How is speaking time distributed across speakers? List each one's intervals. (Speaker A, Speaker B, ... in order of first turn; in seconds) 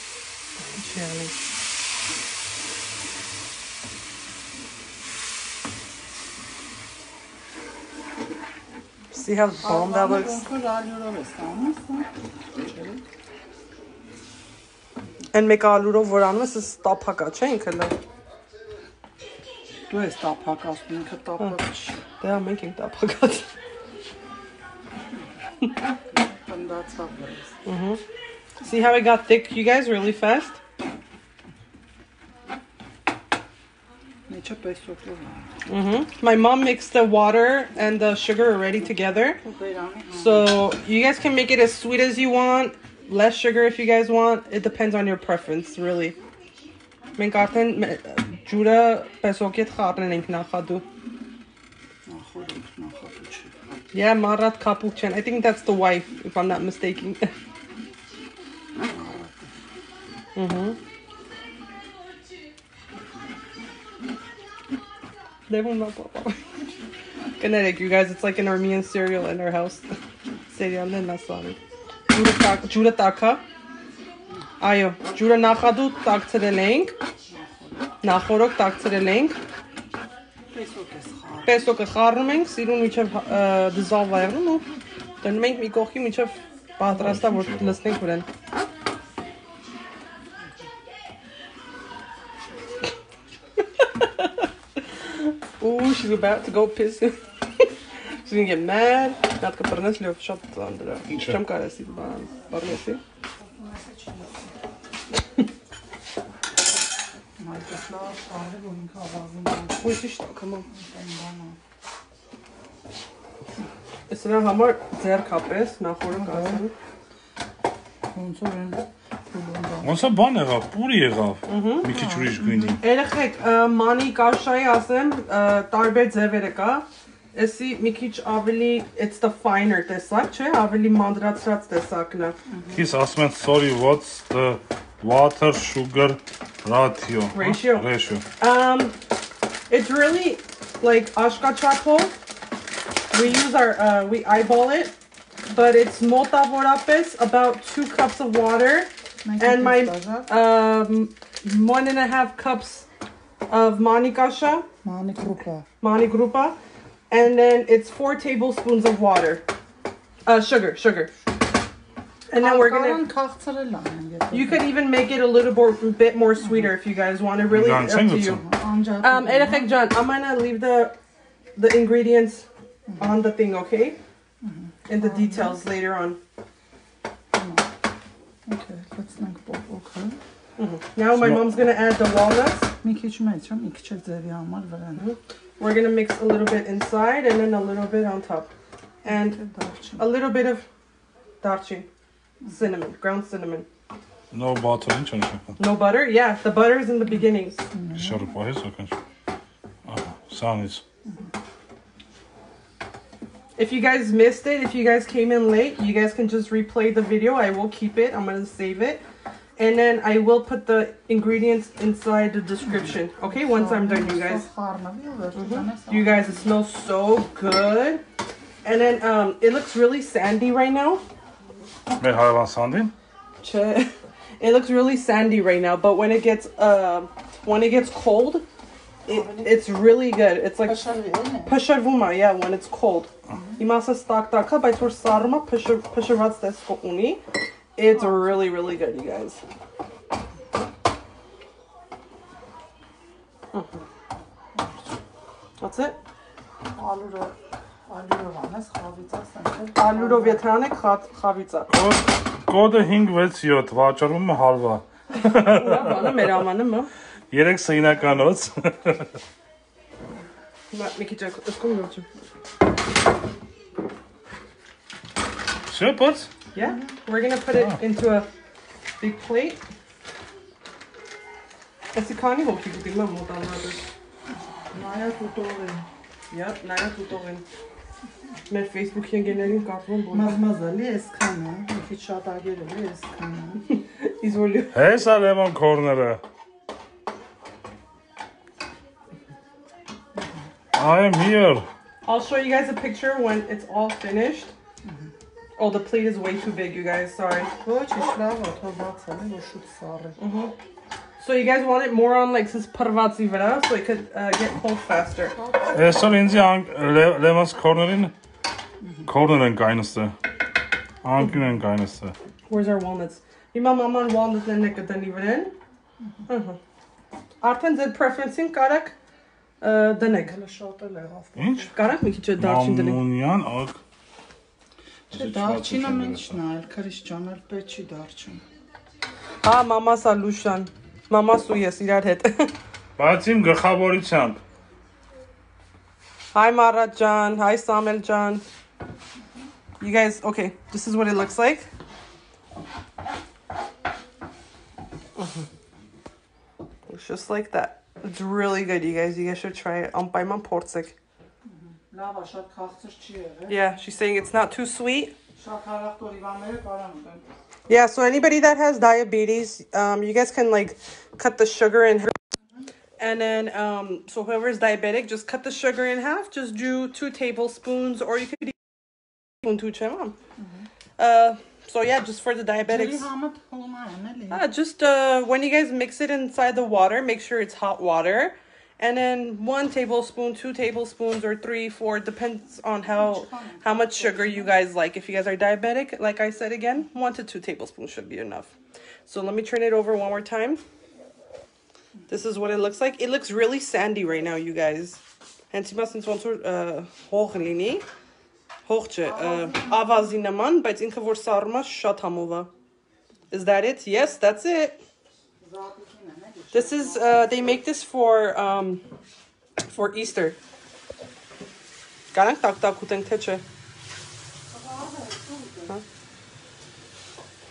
Speaker A: 0.7-1.3, 9.1-10.4, 15.3-17.9, 22.2-23.5, 27.6-28.0, 28.6-30.6, 35.7-39.4, 40.2-46.2, 47.2-50.9, 53.9-57.3, 60.4-60.8, 65.5-66.4, 67.4-69.9, 70.5-71.6, 72.1-73.4, 74.6-76.9, 78.0-79.4, 81.5-84.7, 85.2-88.2, 93.8-94.3, 95.6-97.7, 98.2-103.0, 109.8-110.7, 114.1-116.7, 121.5-121.9, 122.8-132.4, 137.3-137.9, 138.4-138.9, 139.7-142.1, 143.1-144.9, 145.5-152.9, 153.5-154.7, 155.8-156.6, 157.1-159.4, 160.2-161.1, 162.3-163.0, 164.3-168.4, 169.0-171.0, 171.6-172.5, 173.0-174.0, 174.9-176.2, 180.6-182.7, 185.0-188.5, 189.1-189.4, 190.0-190.7, 191.4-191.9, 192.5-193.7, 195.6-197.7, 203.6-209.0, 209.6-214.4, 215.3-218.0, 218.6-221.0, 223.4-228.4, 229.1-230.9, 231.5-237.2, 237.8-239.4, 243.5-243.8, 245.6-246.0, 249.8-251.7, 255.2-256.9, 260.7-262.1, 266.5-268.3, 269.0-269.6, 271.9-273.8, 276.3-277.4, 278.5-280.4, 283.7-284.7, 292.0-294.5, 295.6-297.5, 300.2-300.5, 301.2-305.4, 312.5-315.5, 316.3-316.6, 317.4-319.0, 319.6-320.4, 321.7-323.0, 329.4-332.5, 336.3-338.4, 339.8-341.7, 346.9-351.0, 353.5-355.1, 357.7-362.1, 363.0-368.7, 369.4-370.1, 371.0-373.0, 374.3-388.5, 389.1-390.6, 392.1-395.0, 395.5-397.9, 398.6-402.5, 403.3-404.8, 406.5-408.8, 409.7-410.4, 412.1-413.4
Speaker B: 9.6-13.0, 19.9-22.0, 26.1-27.5, 34.3-35.5, 39.4-40.6, 52.1-53.6, 58.8-59.5, 77.3-77.9, 80.5-81.7, 103.4-104.5, 107.4-110.0, 110.7-111.6, 116.1-116.6, 118.1-119.9, 121.8-122.8, 132.5-132.8, 149.2-150.3, 154.8-155.7, 162.4-164.7, 166.4-166.7, 168.4-169.8, 172.9-173.2, 174.4-175.6, 177.3-177.7, 178.5-180.2, 182.8-185.1, 189.0-190.1, 197.7-198.2, 212.8-216.5, 229.1-229.8, 230.6-231.6, 233.3-233.6, 237.9-238.4, 244.5-244.9, 246.8-247.3, 247.9-250.4, 266.6-266.9, 274.7-275.9, 280.1-283.6, 297.6-300.2, 305.4-306.2, 308.8-309.1, 320.0-321.7, 325.1-328.4, 351.4-353.6, 355.4-357.2, 370.4-370.6, 372.7-374.4, 382.9-384.5, 399.0-400.0, 405.4-407.2, 414.5-415.8
Speaker C: 87.0-87.8, 101.1-101.4, 119.8-122.8, 132.7-138.2, 167.5-168.4, 181.1-181.5, 194.3-195.6, 197.9-198.9, 199.9-200.8, 222.0-222.9, 251.7-256.3, 257.3-259.1, 265.7-266.3, 284.7-286.2, 290.8-291.7, 305.7-308.1, 309.0-310.1, 311.0-312.1, 321.4-321.7, 322.4-323.8, 325.1-326.4, 333.0-334.4